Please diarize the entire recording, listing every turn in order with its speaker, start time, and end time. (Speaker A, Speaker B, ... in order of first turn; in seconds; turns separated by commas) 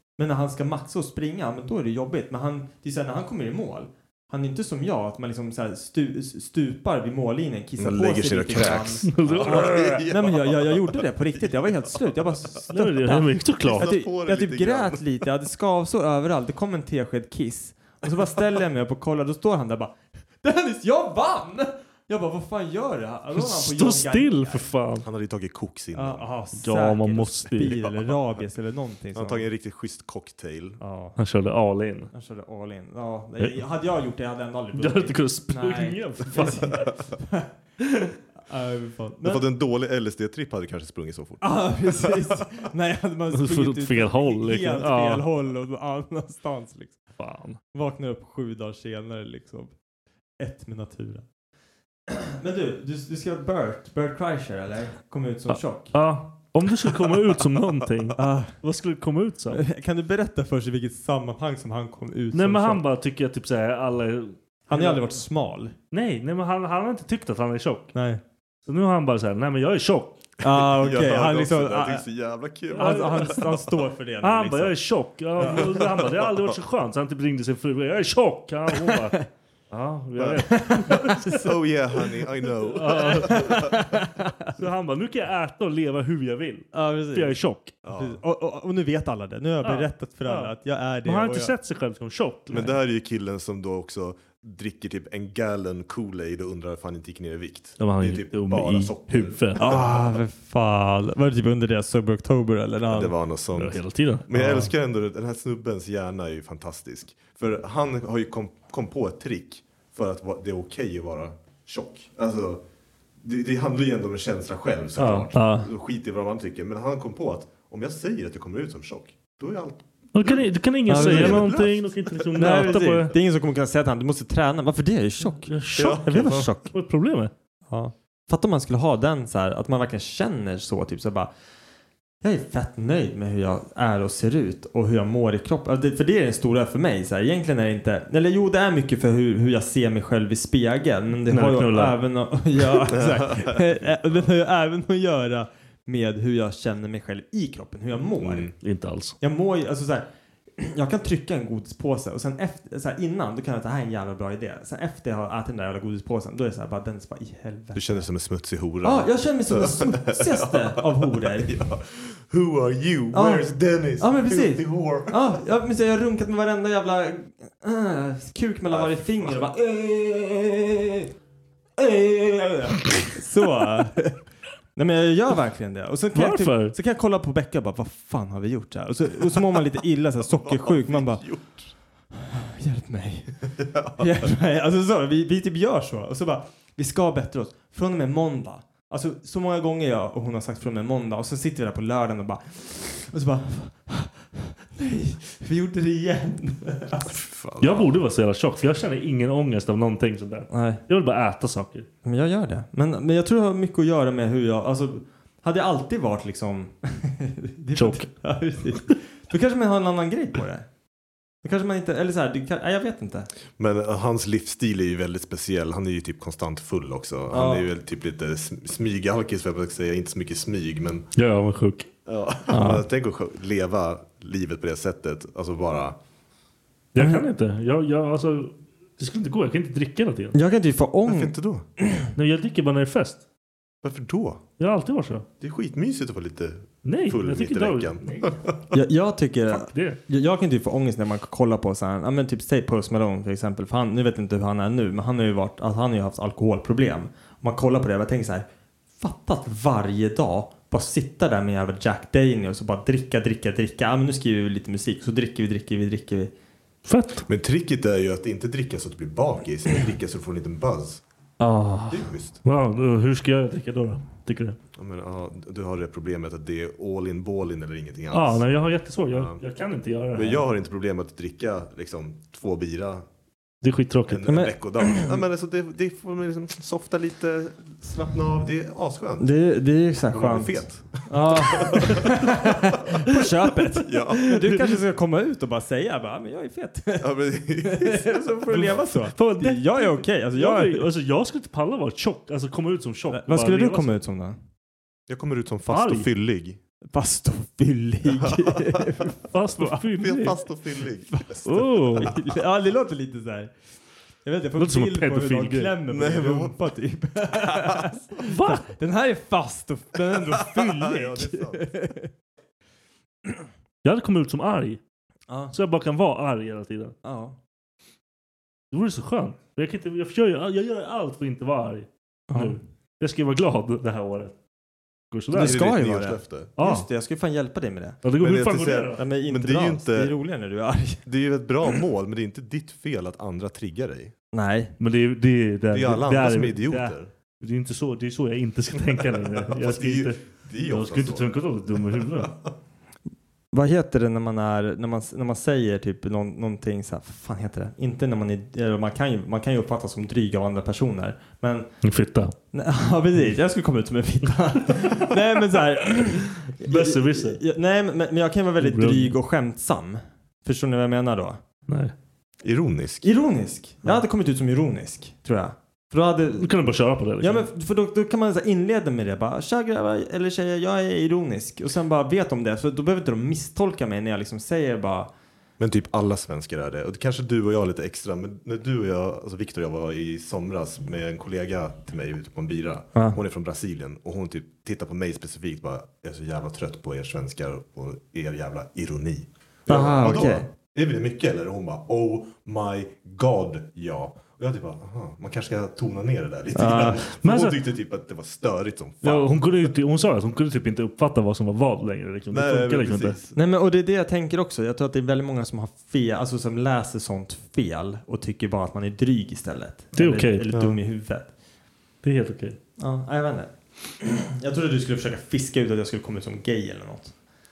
Speaker A: 0.2-24.7, Speaker B: 7.8-12.6, Speaker C: 9.1-10.0, Speaker C: 12.7-13.9, Speaker B: 13.6-15.0, Speaker C: 23.4-25.1, Speaker B: 25.0-26.3, Speaker A: 25.9-29.5, Speaker C: 26.6-27.8, Speaker B: 29.1-30.8, Speaker A: 30.8-31.2, Speaker C: 31.2-32.1, Speaker A: 32.1-37.5, Speaker C: 34.8-37.0, Speaker A: 38.5-39.5, Speaker B: 39.2-42.4, Speaker A: 41.4-47.1, Speaker C: 43.3-45.2, Speaker C: 47.2-47.6, Speaker A: 47.7-49.7, Speaker A: 50.4-51.2, Speaker A: 52.1-56.0, Speaker C: 55.5-59.6, Speaker B: 56.9-57.2, Speaker A: 58.2-58.5, Speaker A: 59.5-62.8, Speaker C: 62.3-65.2, Speaker A: 64.7-65.7, Speaker C: 65.9-67.9, Speaker A: 67.9-68.2, Speaker C: 68.7-70.2, Speaker A: 70.4-72.0, Speaker B: 70.4-73.6, Speaker C: 72.7-73.5, Speaker A: 72.8-74.8, Speaker C: 74.2-81.4, Speaker A: 75.4-75.7, Speaker B: 75.4-76.6, Speaker A: 78.9-79.2, Speaker B: 80.2-83.9, Speaker A: 80.5-81.5, Speaker C: 82.7-83.7, Speaker A: 83.2-84.6, Speaker C: 84.5-87.7, Speaker A: 86.7-91.5, Speaker B: 87.8-88.2, Speaker C: 89.6-92.8, Speaker B: 92.5-100.2, Speaker C: 97.8-99.7, Speaker A: 99.6-103.2, Speaker B: 102.9-112.6, Speaker C: 103.5-104.3, Speaker A: 104.3-104.7, Speaker B: 113.2-122.8, Speaker C: 115.0-115.7, Speaker A: 115.4-115.7, Speaker C: 120.1-123.1, Speaker A: 120.9-121.5, Speaker A: 122.4-126.7, Speaker C: 125.4-127.3, Speaker B: 125.7-126.5, Speaker A: 127.7-131.3, Speaker A: 132.2-148.5, Speaker C: 141.3-142.0, Speaker B: 142.9-144.2, Speaker B: 148.2-148.5, Speaker C: 148.6-149.2, Speaker A: 149.2-158.1, Speaker B: 157.8-165.4, Speaker A: 158.8-161.6, Speaker A: 163.1-171.0, Speaker B: 168.7-169.4, Speaker A: 171.9-174.2, Speaker A: 174.8-181.3, Speaker C: 176.1-176.8, Speaker B: 180.2-181.7, Speaker A: 182.2-197.2, Speaker B: 183.6-184.3, Speaker B: 197.1-198.0, Speaker C: 197.6-201.9, Speaker A: 200.5-200.8, Speaker A: 202.0-210.7, Speaker C: 207.8-208.1, Speaker A: 211.4-213.3, Speaker B: 213.6-221.1, Speaker A: 217.3-217.7, Speaker C: 221.2-221.9, Speaker B: 222.1-226.0, Speaker A: 222.5-222.8, Speaker C: 226.9-230.4, Speaker A: 227.0-227.2, Speaker A: 230.3-231.3, Speaker B: 231.1-231.7, Speaker C: 232.2-233.2, Speaker B: 233.8-234.4, Speaker C: 234.6-235.2, Speaker B: 235.4-238.5, Speaker C: 236.8-238.4, Speaker A: 238.7-248.5, Speaker C: 239.5-240.0, Speaker A: 249.0-256.3, Speaker C: 256.9-257.3, Speaker B: 257.3-261.0, Speaker C: 261.4-264.6, Speaker B: 261.9-262.4, Speaker B: 264.8-268.5, Speaker C: 268.1-270.4, Speaker B: 269.1-269.4, Speaker B: 270.1-273.1, Speaker C: 273.6-274.3, Speaker B: 274.1-279.4, Speaker A: 274.3-275.1, Speaker A: 279.2-290.9, Speaker B: 280.1-282.8, Speaker B: 283.8-284.4, Speaker B: 287.0-288.8, Speaker C: 288.5-293.9, Speaker A: 293.1-294.4, Speaker B: 295.1-296.6, Speaker C: 295.7-296.1, Speaker A: 296.9-299.3, Speaker B: 298.1-298.9, Speaker C: 299.3-300.4, Speaker B: 299.9-302.3, Speaker A: 301.1-303.5, Speaker C: 301.4-302.1, Speaker A: 304.2-312.1, Speaker C: 304.6-305.8, Speaker B: 305.9-306.6, Speaker B: 307.4-308.0, Speaker C: 308.2-308.7, Speaker B: 310.1-311.7, Speaker C: 313.8-314.8, Speaker A: 315.3-315.5, Speaker C: 315.5-316.9, Speaker A: 317.0-317.4, Speaker C: 318.7-324.3, Speaker A: 322.3-322.6, Speaker C: 325.1-325.6, Speaker A: 325.3-328.0, Speaker B: 325.4-326.5, Speaker C: 326.6-326.9, Speaker C: 328.0-329.0, Speaker B: 328.2-330.1, Speaker A: 329.0-331.1, Speaker B: 331.1-334.1, Speaker A: 334.3-334.7, Speaker C: 334.8-342.4, Speaker B: 335.7-337.1, Speaker B: 338.9-342.3, Speaker A: 343.5-351.7, Speaker C: 351.8-352.3, Speaker A: 352.5-361.4, Speaker C: 356.5-357.4, Speaker C: 358.6-359.2, Speaker C: 361.7-361.9, Speaker B: 362.4-363.1, Speaker A: 363.0-366.5, Speaker C: 366.4-367.5, Speaker A: 367.2-375.1, Speaker B: 375.6-399.4, Speaker A: 389.7-390.5, Speaker A: 396.6-397.0, Speaker C: 397.1-397.6, Speaker C: 399.0-403.2, Speaker B: 402.3-403.4, Speaker A: 403.4-411.3, Speaker C: 409.9-410.5, Speaker B: 410.5-410.8, Speaker C: 412.0-412.6, Speaker A: 412.8-417.1